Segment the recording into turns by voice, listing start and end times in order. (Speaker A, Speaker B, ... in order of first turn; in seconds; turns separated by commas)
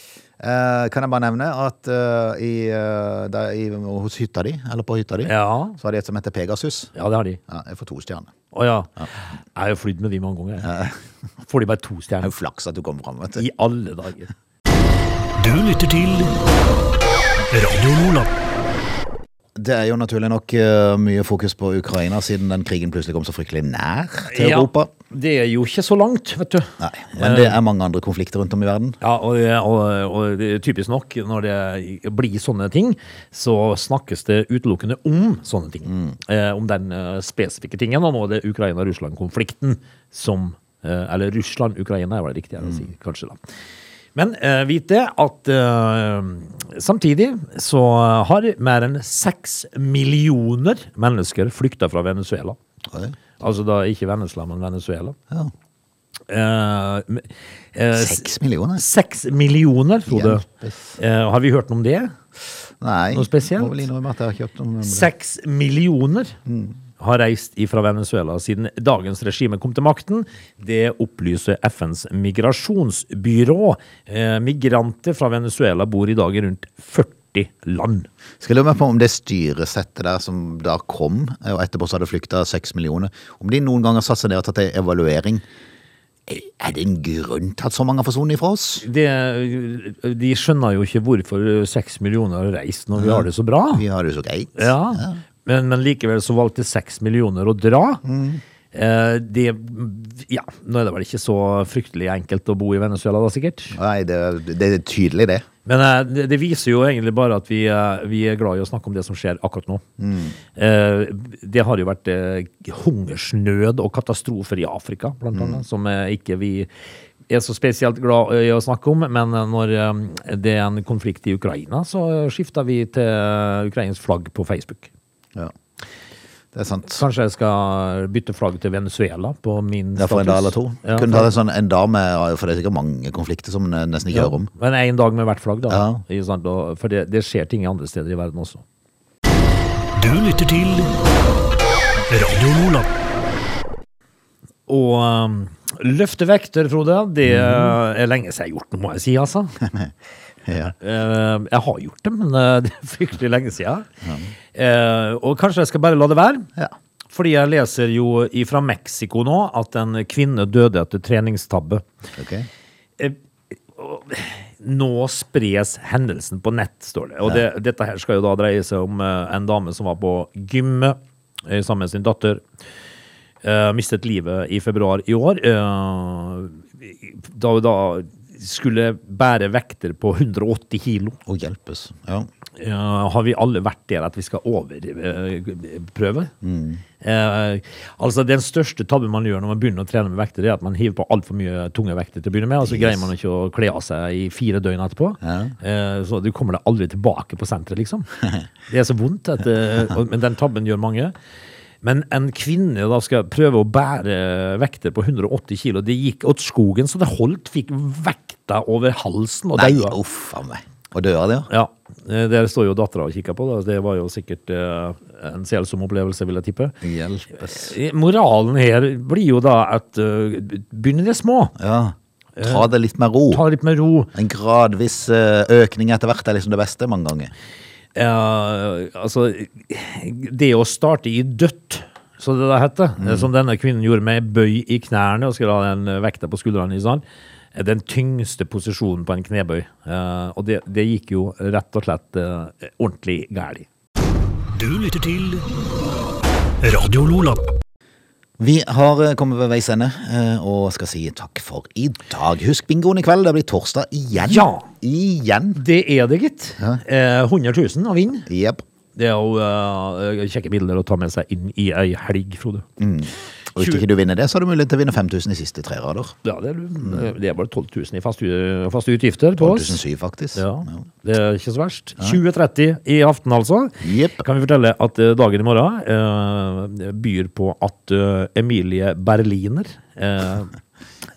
Speaker A: 0.4-6.9, Speaker B: 5.3-5.8, Speaker B: 6.9-7.4, Speaker A: 7.5-8.3, Speaker B: 8.5-10.7, Speaker A: 10.6-11.0, Speaker B: 11.4-12.3, Speaker A: 12.2-13.4, Speaker B: 13.3-14.3, Speaker C: 15.3-16.4, Speaker C: 17.5-18.3, Speaker A: 19.6-24.9, Speaker B: 24.3-27.6, Speaker A: 26.8-29.0, Speaker B: 29.0-43.4, Speaker A: 35.9-36.1, Speaker B: 44.1-52.6, Speaker A: 52.9-53.1, Speaker B: 53.4-55.2, Speaker B: 56.3-60.4, Speaker A: 57.9-58.8, Speaker A: 60.1-61.0, Speaker B: 61.0-62.1, Speaker A: 62.8-65.1, Speaker B: 63.1-63.9, Speaker B: 64.8-66.4, Speaker A: 66.5-66.8, Speaker B: 67.0-78.1, Speaker A: 78.4-85.4, Speaker A: 86.3-88.8, Speaker B: 88.8-93.8, Speaker A: 93.0-95.2, Speaker B: 94.5-98.0, Speaker A: 98.0-98.4, Speaker B: 98.7-103.8, Speaker A: 103.7-105.5, Speaker B: 105.7-109.8, Speaker A: 110.0-110.4, Speaker B: 110.5-116.7, Speaker A: 115.3-115.6, Speaker B: 117.3-124.9, Speaker A: 126.5-127.0, Speaker B: 126.9-131.3, Speaker A: 129.9-134.5, Speaker B: 134.1-138.6, Speaker A: 135.7-136.0, Speaker C: 139.9-140.9, Speaker C: 142.1-142.9, Speaker B: 144.7-149.6, Speaker A: 147.2-147.7, Speaker A: 150.4-150.7, Speaker B: 150.7-153.9, Speaker A: 154.0-154.3, Speaker B: 154.5-156.5, Speaker B: 157.1-161.8, Speaker A: 162.2-162.5, Speaker B: 163.7-172.4, Speaker B: 173.4-181.2, Speaker A: 181.2-182.3, Speaker B: 182.6-186.3, Speaker A: 186.4-186.8, Speaker B: 187.0-198.1, Speaker A: 192.6-193.0, Speaker A: 195.2-195.5, Speaker B: 198.7-201.1, Speaker B: 201.8-210.0, Speaker A: 209.6-211.5, Speaker B: 211.5-216.8, Speaker A: 216.8-217.7, Speaker B: 217.5-221.5, Speaker A: 221.6-223.4, Speaker B: 222.4-222.7, Speaker B: 223.3-224.1, Speaker A: 224.1-227.3, Speaker B: 227.9-237.0, Speaker A: 233.0-233.3, Speaker B: 237.5-243.7, Speaker C: 244.5-245.5, Speaker C: 246.6-247.4, Speaker A: 248.4-255.6, Speaker B: 254.2-254.7, Speaker B: 255.6-258.3, Speaker A: 258.3-258.6, Speaker B: 258.9-262.7, Speaker A: 262.8-266.1, Speaker B: 263.6-263.8, Speaker B: 266.2-269.8, Speaker A: 269.4-270.8, Speaker B: 270.3-280.5, Speaker A: 273.8-274.2